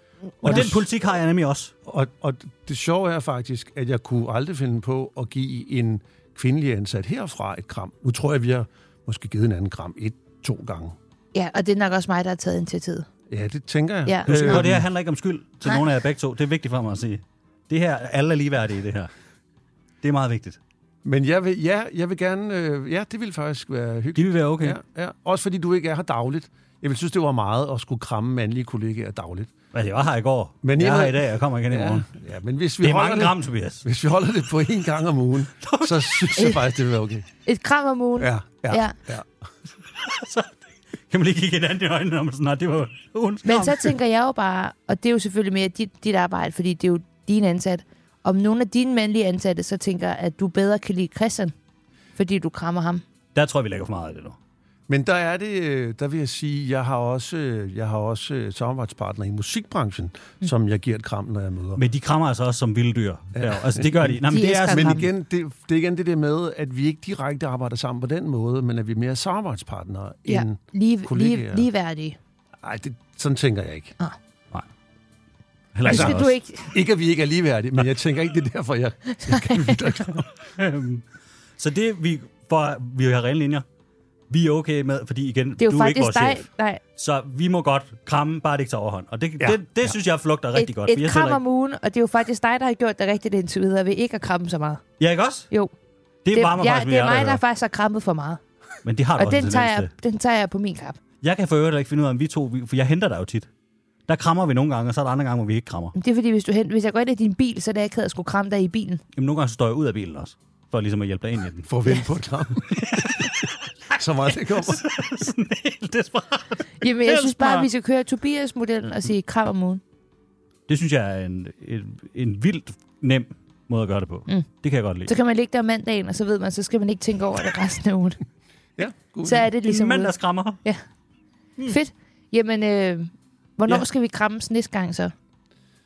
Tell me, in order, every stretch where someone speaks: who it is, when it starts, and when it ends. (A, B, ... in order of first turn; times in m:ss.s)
0:00.4-0:00.9 A
0:00.4-0:01.7 B
0:01.9-0:11.0 A
0:11.3-0:13.1 C
0:13.3-0:14.8 A
0:14.1-0:14.7 C
0:14.2-0:19.1 B
0:20.0-0:20.6 B
0:21.0-0:29.5 A
0:24.2-0:24.8 B
0:29.7-0:32.1 B
0:30.6-0:37.3 A
0:32.8-0:33.9 B
0:35.6-0:36.5 B
0:37.4-0:39.0 C
0:38.2-0:39.3 A
0:39.9-0:43.9 B
0:43.4-0:51.5 C
0:52.2-0:53.0 C
0:53.4-0:54.4 B
0:54.9-1:01.8 A
1:01.8-1:05.0 B
1:03.4-1:11.7 A
1:04.3-1:05.1 C
1:10.3-1:12.2 C
1:12.6-1:13.9 A
1:15.8-1:16.4 B
1:15.8-1:16.7 C
1:15.9-1:20.3 A
1:19.3-1:19.7 C
1:20.5-1:21.0 B
1:21.6-1:23.6 B
1:24.3-1:31.4 B
1:25.6-1:26.8 C
1:29.4-1:29.9 A
1:30.6-1:34.8 C
1:35.0-1:35.5 B
1:36.2-1:37.4 B
1:36.3-1:38.4 C
1:38.8-1:39.9 B
1:39.2-1:41.0 C
1:41.2-1:43.5 B
1:44.1-1:45.9 B
1:46.0-1:49.0 C
1:49.2-1:51.7 B
1:51.7-1:53.3 A
1:52.7-1:57.7 B
1:53.9-1:54.8 A
1:56.8-1:59.8 C
2:00.7-2:05.1 B
2:05.1-2:08.2 C
2:08.8-2:09.4 A
2:09.2-2:10.8 C
2:09.4-2:10.6 B
2:11.7-2:15.1 C